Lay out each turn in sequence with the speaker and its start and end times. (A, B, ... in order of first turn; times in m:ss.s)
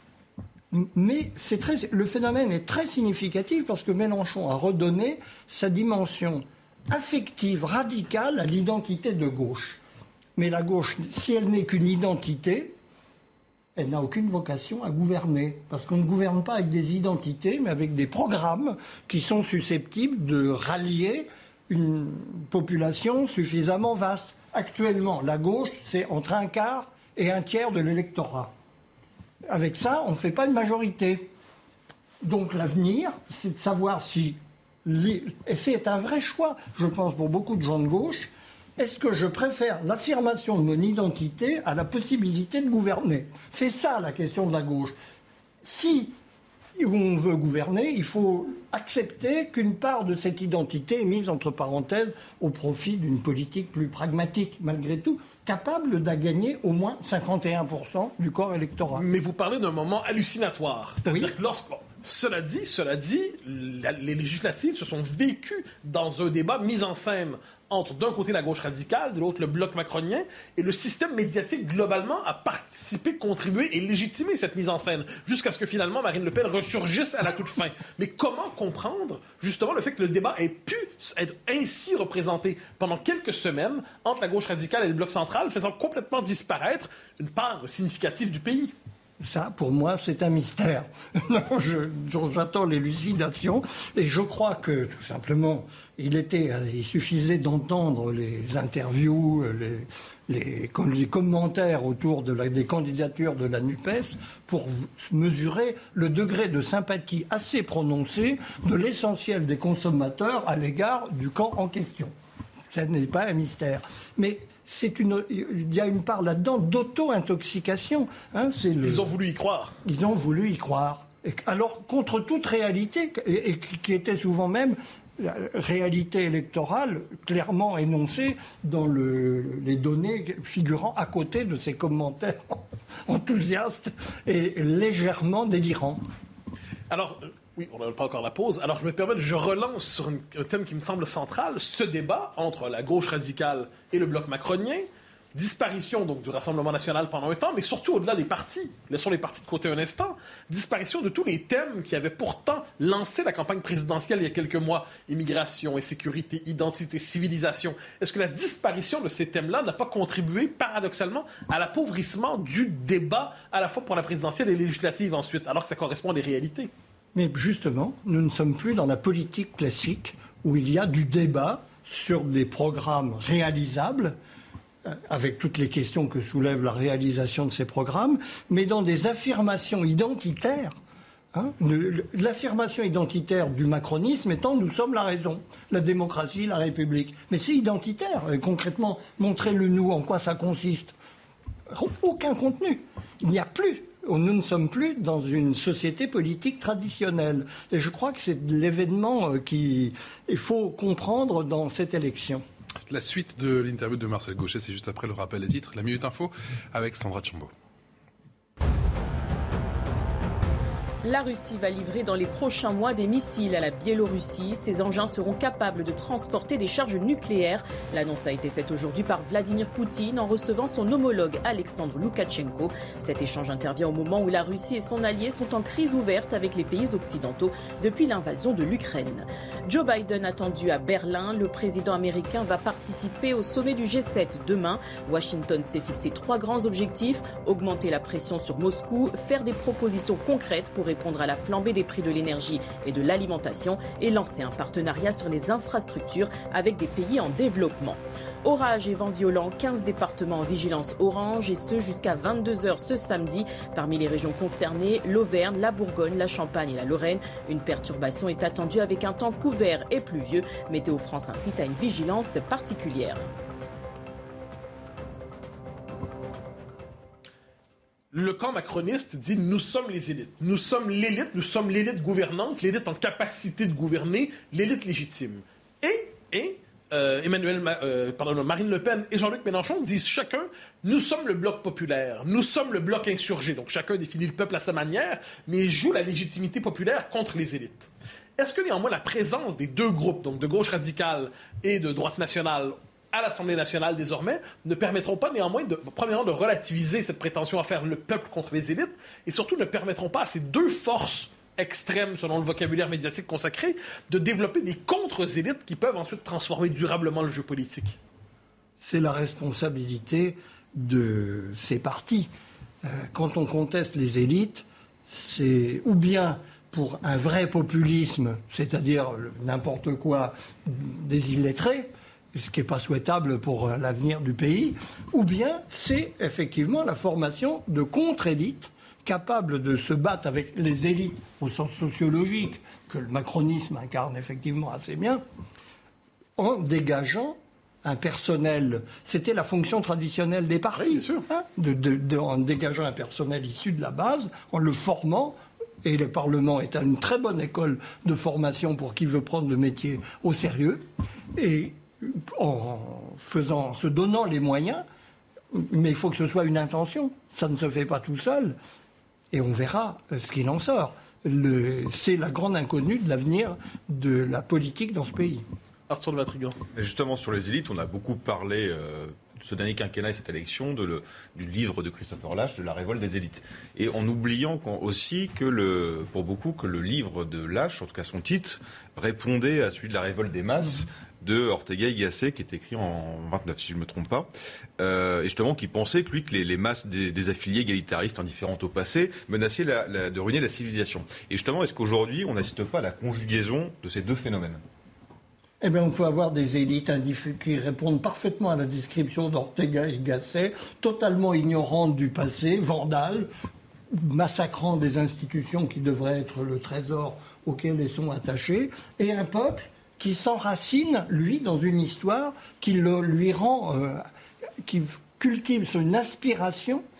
0:00.7-0:09.8 A
0:10.4-0:12.7 A
0:13.8-0:28.5 A
0:29.5-0:31.3 A
0:32.2-0:45.0 A
0:45.6-0:46.1 A
0:46.8-0:59.0 A
0:58.9-1:28.7 B
1:01.0-1:01.3 A
1:29.2-1:52.1 A
1:52.7-1:59.1 A
1:58.8-1:59.7 B
1:59.8-2:16.0 A
2:16.9-2:46.7 B
2:47.1-2:54.2 A
2:54.8-3:00.8 A
3:01.3-3:10.9 A
3:11.7-3:22.4 A
3:22.9-3:27.5 C
3:31.0-4:23.2 D
4:28.1-5:08.0 B
5:08.8-5:12.3 A
5:12.8-5:35.2 A
5:36.4-5:54.8 A
5:40.8-5:41.2 B
5:55.5-5:58.6 A
5:59.3-6:05.4 A
6:05.9-6:06.6 B
6:06.7-6:24.3 E
6:24.8-6:34.6 E
6:35.6-6:43.3 A
6:43.9-6:54.0 A
6:54.6-6:56.8 A